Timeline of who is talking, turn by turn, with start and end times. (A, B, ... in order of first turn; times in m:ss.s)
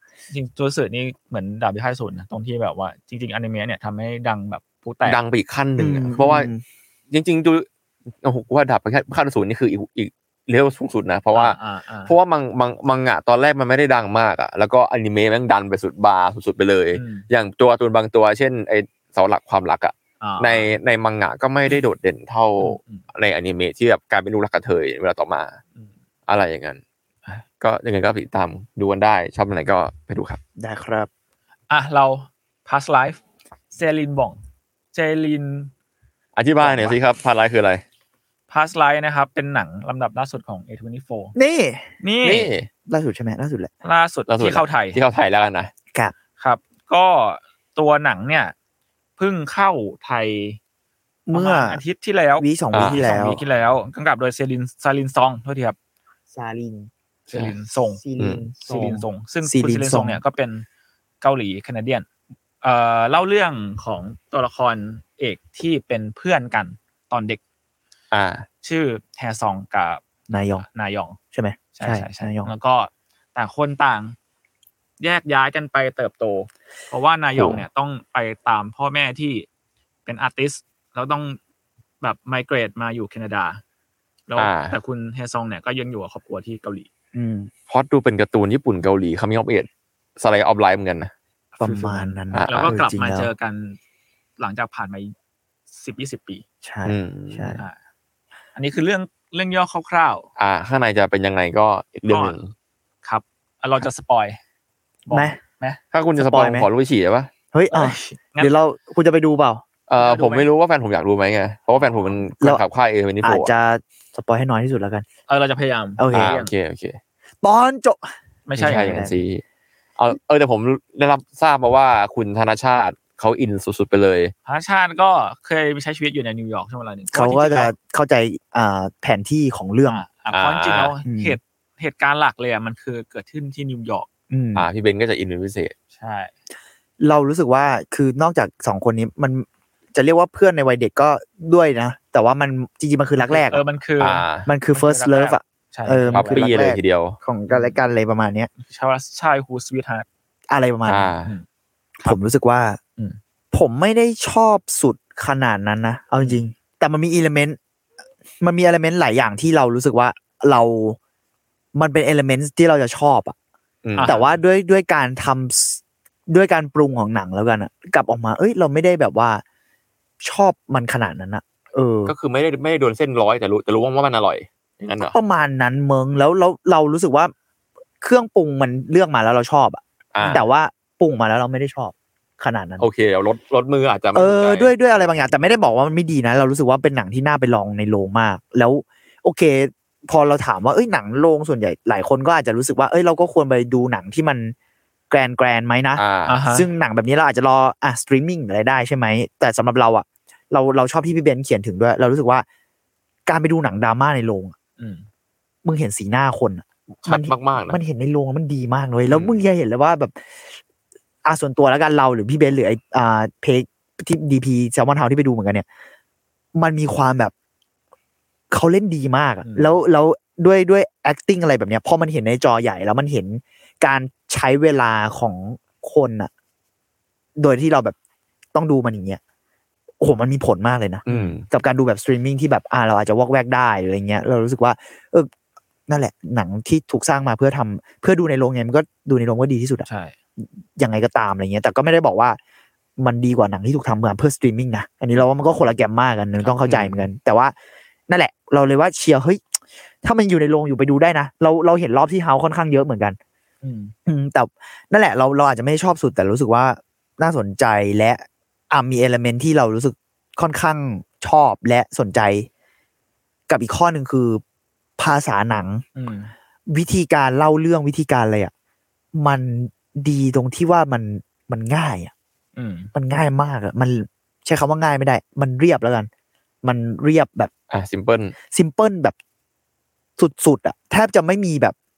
0:00.3-0:05.2 A
0:05.0-0:06.5 B
0:05.8-0:06.6 C
0:07.1-0:07.7 B
0:08.2-0:25.6 B
0:11.3-0:12.1 A
0:16.9-0:17.3 A
0:20.2-0:20.7 A
0:22.6-0:23.0 A
0:26.3-0:26.8 B
0:27.6-0:30.4 B
0:30.6-0:31.1 C
0:31.7-0:33.2 A
0:33.7-0:34.4 A
0:34.9-0:35.7 A
0:36.4-0:37.8 B
0:36.6-0:36.9 A
0:38.5-0:41.3 A
0:41.4-0:41.8 C
0:42.0-0:42.5 A
0:42.2-0:42.7 B
0:42.9-0:43.7 C
0:43.8-0:45.0 A
0:44.3-0:45.7 B
0:46.4-0:48.5 A
0:49.2-0:50.6 A
0:51.3-0:51.8 C
0:51.3-0:55.8 A
0:52.4-0:53.4 C
0:52.7-0:53.0 B
0:56.3-0:56.9 C
0:57.3-0:58.0 A
0:57.9-1:00.2 C
0:58.2-0:58.5 B
0:58.6-1:00.6 A
1:01.2-1:02.1 A
1:02.6-1:07.4 A
1:08.1-1:08.4 B
1:08.6-1:10.0 A
1:10.3-1:10.6 C
1:10.6-1:11.2 A
1:11.3-1:12.5 C
1:11.7-1:14.2 A
1:15.0-1:19.5 A
1:17.4-1:17.6 B
1:20.0-1:21.4 A
1:22.0-1:23.6 A
1:24.3-1:26.9 A
1:24.4-1:24.8 B
1:27.1-1:27.5 C
1:27.7-1:31.1 B
1:31.6-1:33.8 A
1:31.6-1:33.3 C
1:32.3-1:32.7 B
1:34.4-1:35.1 A
1:35.7-1:36.4 A
1:36.6-1:37.6 C
1:36.8-1:37.6 B
1:38.5-1:40.3 A
1:40.4-1:42.5 B
1:42.1-1:42.4 A
1:43.0-1:44.4 A
1:45.1-1:45.8 A
1:45.1-1:45.4 C
1:45.9-1:47.3 B
1:46.2-1:46.7 C
1:47.5-1:49.6 C
1:47.7-1:48.5 A
1:49.9-1:53.5 B
1:50.0-1:50.5 A
1:51.8-1:52.1 A
1:53.2-1:55.0 C
1:55.3-1:56.5 A
1:56.0-1:56.4 C
1:56.1-1:57.0 B
1:57.4-1:59.2 C
1:58.5-1:59.0 A
1:58.6-1:59.4 B
2:00.0-2:04.3 B
2:04.4-2:07.7 A
2:07.1-2:10.0 C
2:09.9-2:14.1 A
2:10.3-2:10.9 B
2:11.0-2:11.4 C
2:14.3-2:14.7 C
2:14.5-2:15.7 B
2:15.9-2:16.3 A
2:17.0-2:23.6 C
2:23.2-2:26.6 A
2:24.0-2:24.5 B
2:24.4-2:28.5 C
2:26.1-2:27.2 B
2:27.5-2:27.8 A
2:28.6-2:30.0 A
2:30.5-2:31.1 C
2:30.8-2:31.3 B
2:32.0-2:32.8 C
2:33.5-2:37.6 C
2:38.4-2:41.0 C
2:41.7-2:43.3 C
2:43.8-2:44.1 B
2:44.0-2:44.4 A
2:44.0-2:49.4 C
2:50.2-2:52.1 C
2:52.0-2:55.1 B
2:55.0-2:57.3 C
2:58.0-3:02.8 C
3:00.1-3:00.4 B
3:02.8-3:04.7 B
3:04.1-3:14.5 C
3:15.1-3:22.4 C
3:16.0-3:16.4 B
3:16.3-3:16.7 A
3:23.3-3:24.5 C
3:24.8-3:25.0 A
3:25.6-3:30.2 C
3:27.0-3:27.8 B
3:31.2-3:35.6 C
3:36.6-3:37.3 C
3:38.5-3:46.3 C
3:39.4-3:39.8 A
3:47.4-3:48.0 C
3:48.5-3:49.2 C
3:50.0-3:55.3 C
3:51.1-3:51.4 B
3:51.1-3:51.4 A
3:55.9-3:59.8 C
3:59.8-4:00.1 A
4:00.4-4:02.4 C
4:03.0-4:07.5 C
4:06.4-4:06.9 A
4:08.1-4:09.4 C
4:10.0-4:13.2 C
4:13.6-4:13.9 A
4:14.0-4:22.5 C
4:23.5-4:24.4 C
4:25.0-4:25.8 C
4:25.9-4:26.3 A
4:26.7-4:28.5 C
4:29.2-4:32.1 C
4:32.6-4:32.9 A
4:32.9-4:36.1 C
4:36.6-4:37.5 C
4:37.7-4:38.3 B
4:38.5-4:39.1 C
4:40.2-4:41.7 C